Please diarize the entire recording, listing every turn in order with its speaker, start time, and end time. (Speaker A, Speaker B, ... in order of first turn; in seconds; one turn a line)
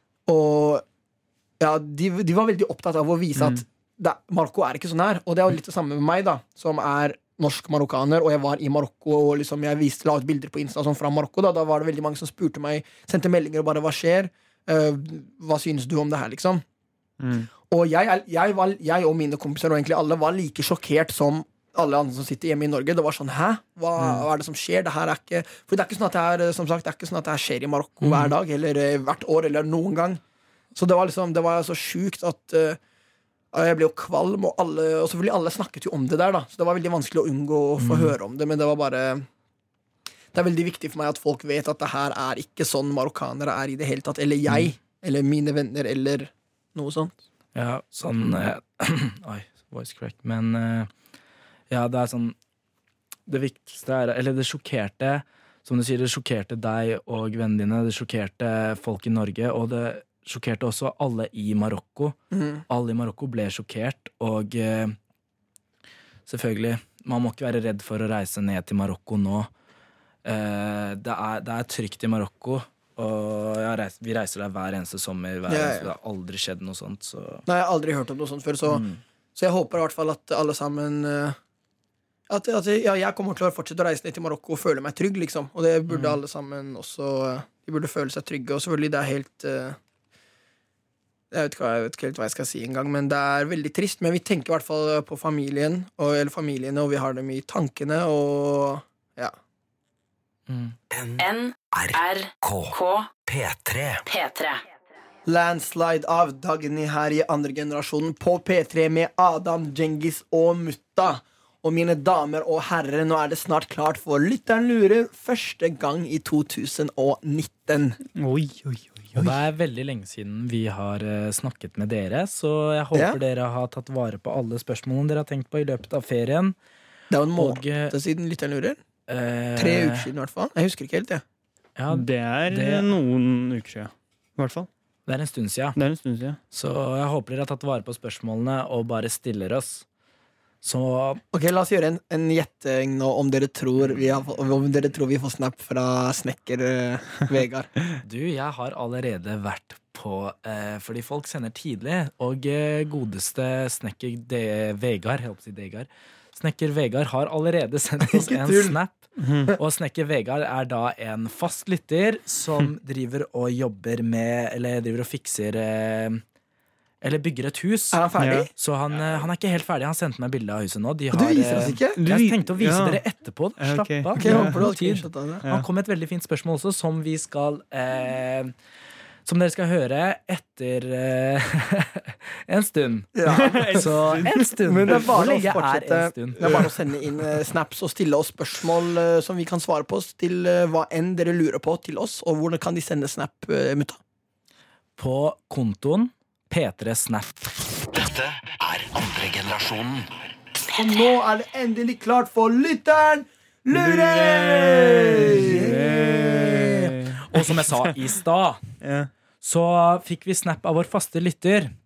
Speaker A: 0.3-0.8
Speaker A: 1.6-16.6
Speaker B: 3.4-3.6
Speaker B: 17.2-17.5
Speaker A: 17.7-30.2
Speaker C: 28.0-28.3
Speaker A: 30.8-32.8
Speaker A: 33.5-39.3
Speaker C: 37.8-38.2
Speaker A: 40.3-47.2
Speaker C: 47.5-50.9
Speaker C: 51.7-52.4
Speaker C: 53.3-62.2
Speaker A: 62.3-62.6
Speaker C: 62.7-65.0
Speaker C: 66.3-69.5
Speaker C: 70.2-77.5
Speaker A: 75.5-75.9
Speaker A: 77.5-81.4
Speaker C: 78.7-79.0
Speaker A: 82.3-89.8
Speaker C: 85.9-86.2
Speaker A: 91.3-99.3
Speaker C: 100.5-100.8
Speaker D: 100.9-104.0
Speaker E: 101.2-103.1
Speaker E: 104.1-104.6
Speaker A: 105.3-118.0
Speaker B: 118.2-119.4
Speaker C: 119.2-126.6
Speaker A: 122.9-123.2
Speaker A: 127.1-128.8
Speaker C: 127.3-128.0
Speaker C: 129.1-130.1
Speaker A: 129.6-131.2
Speaker C: 131.8-132.9
Speaker B: 131.9-134.7
Speaker C: 135.1-135.8
Speaker B: 135.8-136.4
Speaker C: 136.5-139.8
Speaker C: 140.6-141.2
Speaker A: 141.3-147.7
Speaker C: 148.0-159.0
Speaker A: 158.0-158.8
Speaker B: 159.2-159.5
Speaker C: 159.6-166.2
Speaker C: 167.0-178.5
Speaker A: 167.9-168.5
Speaker B: 168.2-168.5
Speaker A: 171.1-172.0
Speaker B: 172.0-173.0
Speaker B: 173.6-174.6
Speaker A: 174.2-175.4
Speaker C: 179.2-183.1
Speaker A: 183.2-183.8
Speaker B: 183.3-185.0
Speaker C: 183.7-186.5
Speaker A: 184.7-194.0
Speaker B: 186.4-186.7
Speaker C: 195.0-197.5
Speaker D: 197.9-200.1
Speaker A: 200.8-205.8
Speaker B: 203.7-207.9
Speaker C: 205.2-208.6
Speaker B: 208.8-209.1
Speaker C: 209.4-211.7